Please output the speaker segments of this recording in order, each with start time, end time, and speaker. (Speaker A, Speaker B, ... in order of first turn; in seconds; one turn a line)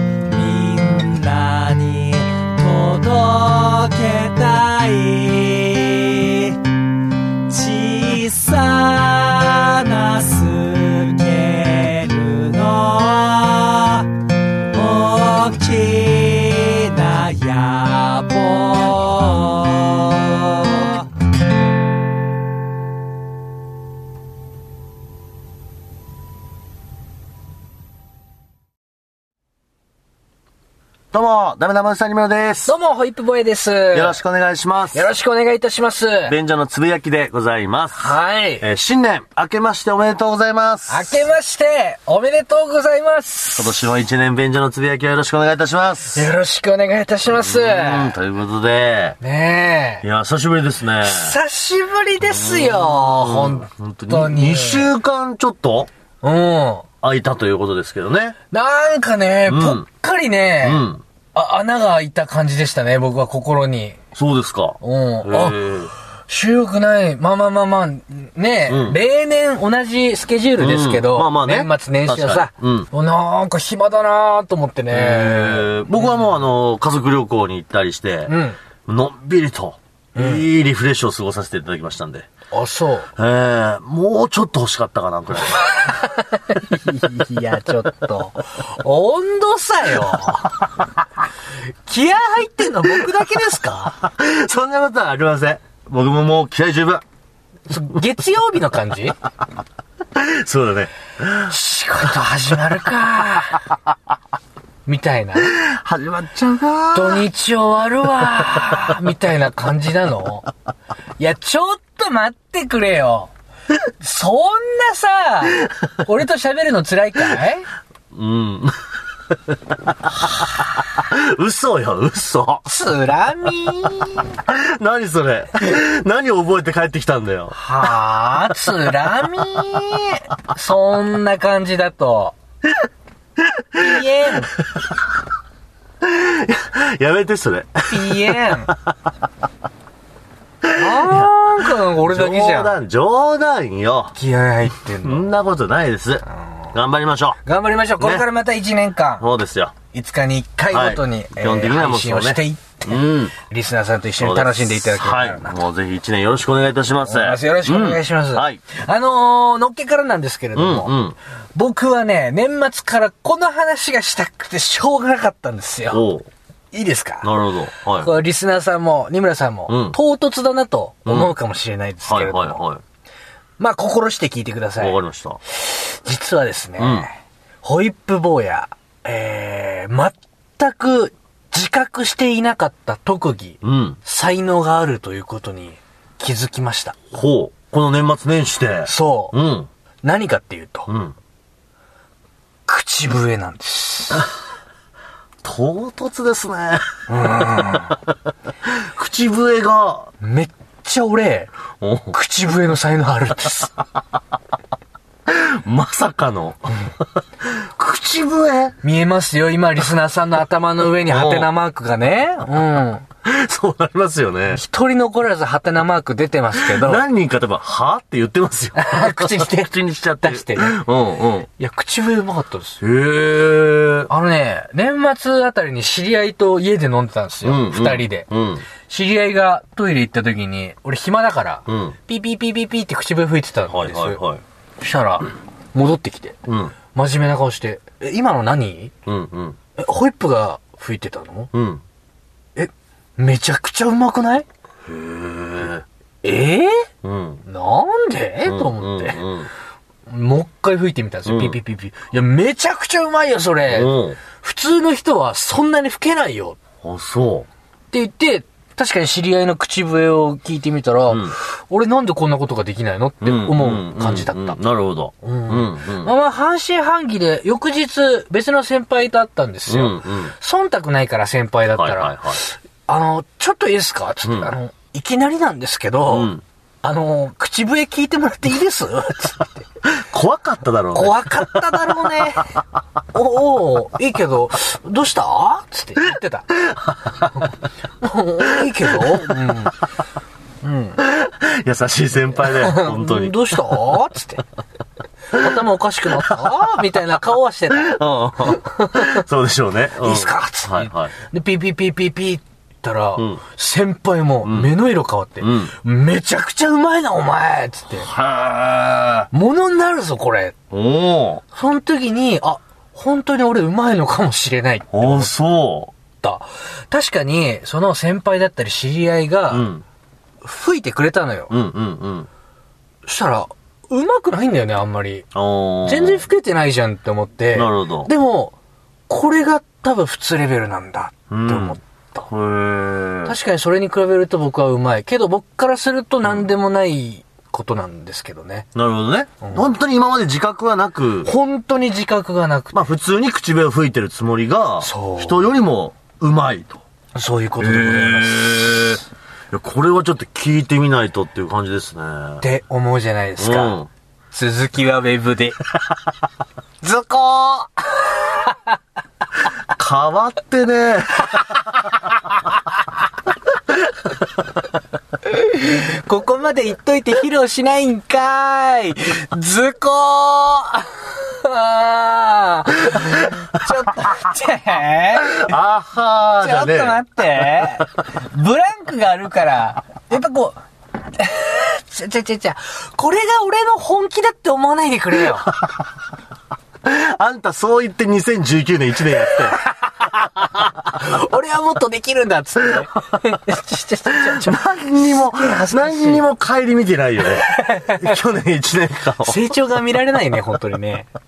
Speaker A: 0.3-6.6
Speaker A: 7.5-14.1
Speaker A: 14.7-21.1
Speaker B: 31.1-32.7
Speaker C: 32.6-34.2
Speaker B: 33.9-35.0
Speaker C: 34.9-36.3
Speaker B: 36.3-41.2
Speaker C: 38.0-38.6
Speaker C: 40.9-43.8
Speaker B: 43.5-46.2
Speaker C: 46.1-48.1
Speaker B: 47.2-49.2
Speaker C: 49.2-50.0
Speaker B: 50.0-51.4
Speaker C: 51.0-54.9
Speaker B: 52.2-55.9
Speaker C: 56.2-56.9
Speaker B: 57.0-58.4
Speaker C: 58.5-64.0
Speaker B: 59.5-59.8
Speaker B: 60.6-61.0
Speaker B: 64.1-65.9
Speaker C: 64.8-65.7
Speaker C: 66.3-76.2
Speaker B: 68.7-69.0
Speaker B: 70.6-72.9
Speaker B: 74.9-78.3
Speaker C: 78.3-78.6
Speaker B: 78.8-82.3
Speaker C: 80.2-80.5
Speaker C: 82.5-83.1
Speaker B: 83.2-85.7
Speaker C: 85.7-90.6
Speaker C: 91.8-94.0
Speaker B: 94.0-97.0
Speaker C: 97.7-99.1
Speaker B: 100.1-101.5
Speaker C: 101.5-103.7
Speaker C: 104.8-105.6
Speaker B: 105.5-107.2
Speaker C: 106.9-110.5
Speaker C: 111.2-113.3
Speaker C: 114.0-117.7
Speaker B: 118.1-118.8
Speaker B: 119.3-122.6
Speaker C: 122.6-124.4
Speaker B: 124.3-127.6
Speaker C: 127.5-132.3
Speaker B: 133.5-133.8
Speaker C: 133.8-134.5
Speaker B: 136.0-138.9
Speaker C: 137.9-138.7
Speaker B: 140.6-144.1
Speaker C: 140.7-142.8
Speaker C: 144.1-145.3
Speaker B: 145.0-147.4
Speaker C: 147.4-149.2
Speaker B: 148.0-148.2
Speaker B: 149.2-149.7
Speaker C: 149.9-155.6
Speaker B: 150.7-153.3
Speaker B: 154.2-158.6
Speaker C: 157.0-161.0
Speaker B: 160.6-161.2
Speaker C: 161.5-166.1
Speaker B: 165.9-166.3
Speaker C: 166.7-167.3
Speaker B: 167.2-168.1
Speaker C: 167.9-172.6
Speaker B: 169.7-170.0
Speaker B: 171.1-171.3
Speaker B: 172.1-172.8
Speaker C: 173.6-175.0
Speaker B: 174.8-175.4
Speaker C: 175.5-186.9
Speaker B: 176.8-177.1
Speaker B: 183.6-184.0
Speaker B: 187.1-189.7
Speaker C: 188.8-189.4
Speaker C: 190.0-190.9
Speaker B: 190.9-191.1
Speaker C: 192.7-194.3
Speaker B: 195.4-197.6
Speaker C: 197.1-197.9
Speaker B: 198.6-200.1
Speaker C: 200.2-201.5
Speaker B: 201.8-202.1
Speaker C: 202.1-203.7
Speaker B: 205.2-208.8
Speaker C: 208.8-213.1
Speaker B: 211.0-211.5
Speaker B: 213.2-214.6
Speaker C: 214.5-217.0
Speaker B: 216.6-221.5
Speaker C: 218.8-220.8
Speaker C: 221.6-222.8
Speaker B: 222.8-224.1
Speaker C: 224.1-228.3
Speaker B: 227.4-228.6
Speaker C: 228.8-234.2
Speaker B: 231.7-231.9
Speaker B: 233.7-234.4
Speaker C: 234.8-236.4
Speaker B: 236.4-236.7
Speaker C: 236.9-238.9
Speaker B: 239.1-239.6
Speaker C: 239.8-241.5
Speaker B: 241.5-241.8
Speaker C: 242.6-244.5
Speaker B: 244.8-245.8
Speaker C: 246.2-246.9
Speaker B: 247.0-247.4
Speaker C: 247.4-249.2
Speaker B: 248.4-249.5
Speaker C: 250.1-256.6
Speaker B: 251.2-251.6
Speaker B: 253.7-254.2
Speaker B: 256.8-257.5
Speaker C: 257.9-264.6
Speaker B: 261.1-261.3
Speaker B: 263.2-266.1
Speaker C: 265.2-279.6
Speaker B: 269.7-270.3
Speaker B: 271.7-272.4
Speaker B: 274.2-274.5
Speaker B: 276.1-276.4
Speaker B: 279.9-281.4
Speaker C: 280.9-282.6
Speaker C: 283.1-286.7
Speaker C: 288.0-289.8
Speaker C: 290.6-291.0
Speaker B: 291.0-293.4
Speaker C: 292.4-294.4
Speaker C: 295.3-299.2
Speaker B: 297.7-301.1
Speaker C: 300.0-308.1
Speaker B: 304.4-304.7
Speaker B: 305.4-305.7
Speaker B: 308.0-309.3
Speaker C: 309.3-310.5
Speaker B: 310.7-311.4
Speaker C: 311.5-315.3
Speaker B: 314.9-315.9
Speaker C: 316.2-319.6
Speaker B: 319.5-319.8
Speaker C: 320.4-321.5
Speaker B: 321.5-322.3
Speaker C: 323.1-325.2
Speaker B: 325.3-326.2
Speaker C: 325.8-328.5
Speaker B: 327.5-328.1
Speaker C: 329.1-332.2
Speaker B: 331.3-333.3
Speaker C: 333.2-338.7
Speaker B: 338.7-341.3
Speaker C: 341.2-342.9
Speaker B: 342.7-346.8
Speaker C: 344.8-345.5
Speaker C: 347.1-348.9
Speaker B: 347.6-352.4
Speaker C: 352.4-353.8
Speaker B: 353.4-353.9
Speaker C: 354.3-355.6
Speaker C: 356.8-358.6
Speaker B: 359.7-361.5
Speaker C: 365.2-375.5
Speaker B: 375.3-377.0
Speaker C: 376.4-380.6
Speaker C: 381.1-385.5
Speaker B: 386.8-389.6
Speaker C: 390.8-394.7
Speaker B: 394.1-399.4
Speaker C: 395.3-396.2
Speaker C: 397.5-398.1
Speaker C: 399.2-401.1